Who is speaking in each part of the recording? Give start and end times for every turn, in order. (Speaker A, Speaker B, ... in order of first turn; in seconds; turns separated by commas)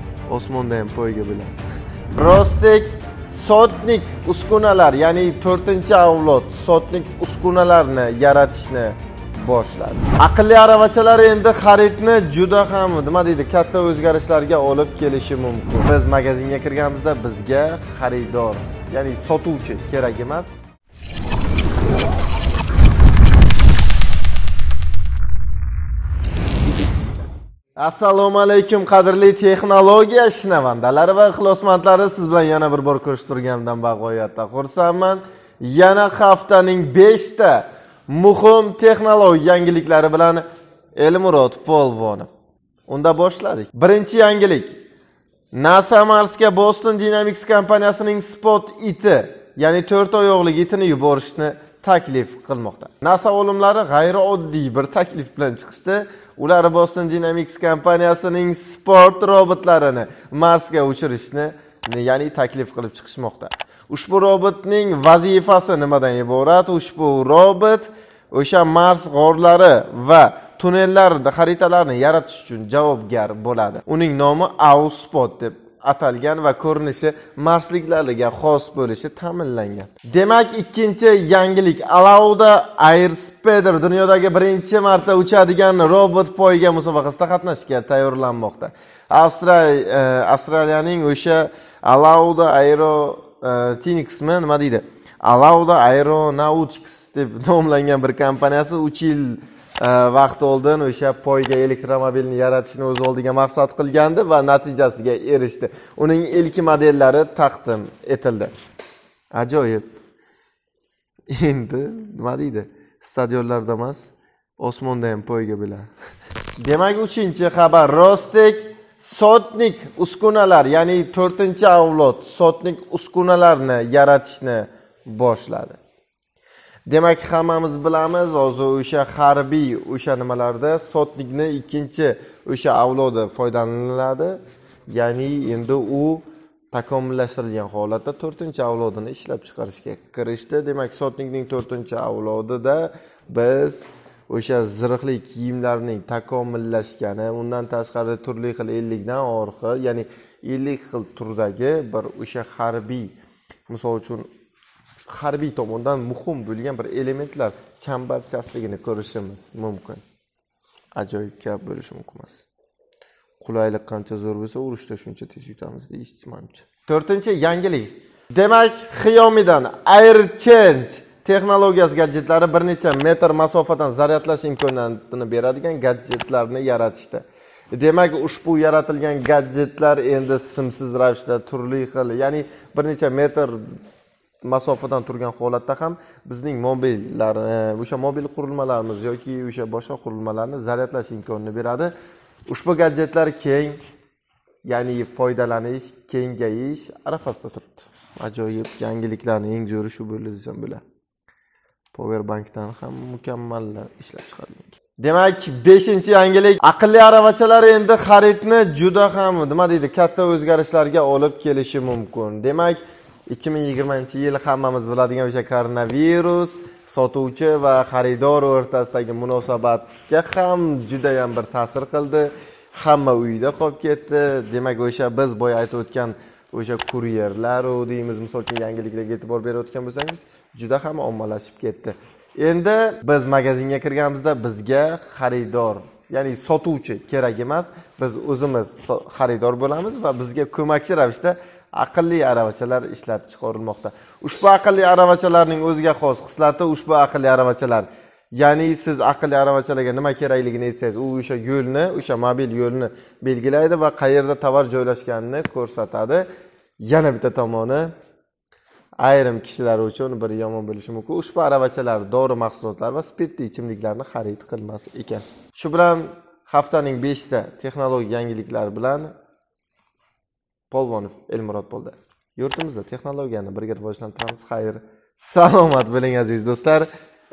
Speaker A: 0.3-1.5, Speaker A: 2.1-20.5, Speaker A: 27.8-40.5, Speaker A: 41.0-42.3, Speaker A: 42.9-44.8, Speaker A: 45.5-108.5, Speaker A: 109.3-109.9, Speaker A: 111.3-115.9, Speaker A: 116.6-125.8, Speaker A: 126.9-153.1, Speaker A: 153.7-154.3, Speaker A: 155.1-160.0, Speaker A: 160.9-162.5, Speaker A: 163.4-183.8, Speaker A: 184.4-191.9, Speaker A: 192.5-193.8, Speaker A: 194.7-200.8, Speaker A: 201.9-256.3, Speaker A: 256.8-257.9, Speaker A: 259.0-269.1, Speaker A: 270.7-276.9